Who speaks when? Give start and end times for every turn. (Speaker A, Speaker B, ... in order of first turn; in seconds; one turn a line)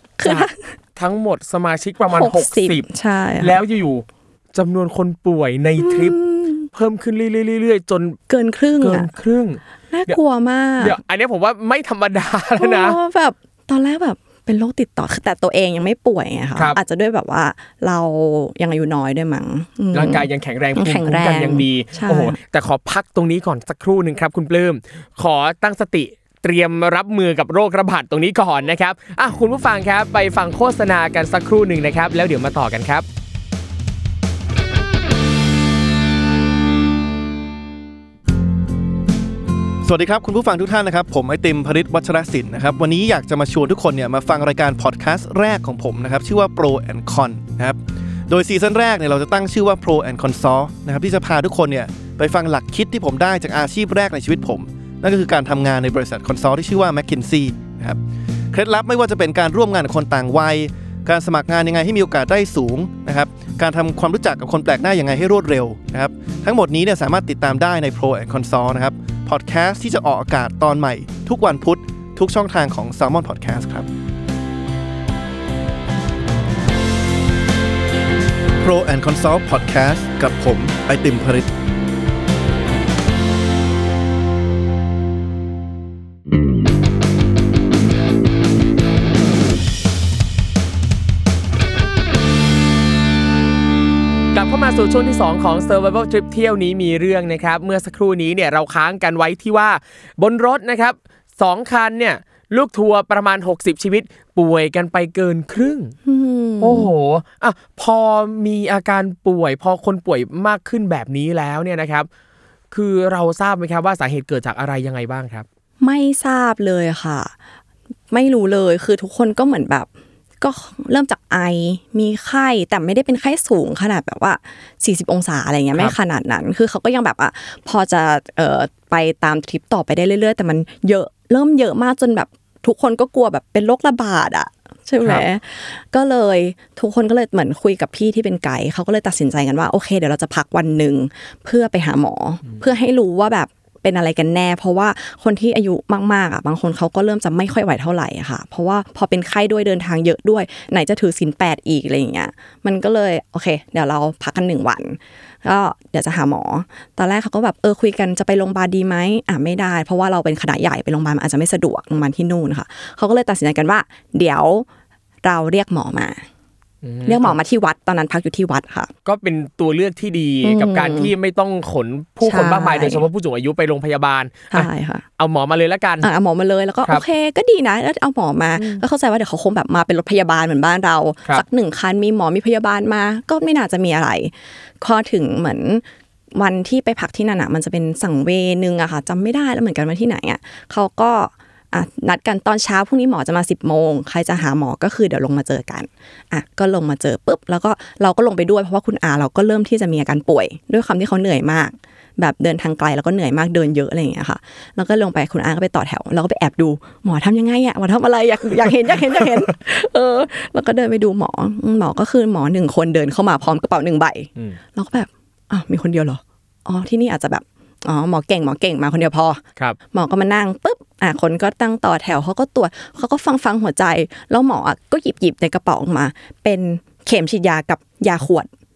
Speaker A: 0.2-0.7
Speaker B: 0.2-2.9
Speaker A: 2.1-3.6
Speaker B: 3.4-6.2
Speaker A: 5.8-6.7
Speaker B: 6.7-8.2
Speaker A: 8.3-9.1
Speaker B: 8.8-10.2
Speaker A: 9.9-10.9
Speaker B: 10.8-13.0
Speaker A: 12.6-22.4
Speaker B: 19.9-33.0
Speaker C: 39.8-58.0
Speaker C: 58.5-73.9
Speaker C: 78.6-81.5
Speaker B: 94.3-105.9
Speaker A: 106.0-106.9
Speaker B: 106.6-112.1
Speaker B: 112.7-115.5
Speaker A: 115.8-117.3
Speaker A: 118.1-119.9
Speaker A: 120.4-164.7
Speaker A: 165.2-166.2
Speaker B: 166.8-167.4
Speaker A: 167.0-168.9
Speaker B: 169.1-176.1
Speaker A: 170.4-171.1
Speaker A: 172.2-173.0
Speaker A: 174.5-175.0
Speaker A: 176.0-185.8
Speaker B: 178.6-178.8
Speaker A: 186.3-228.5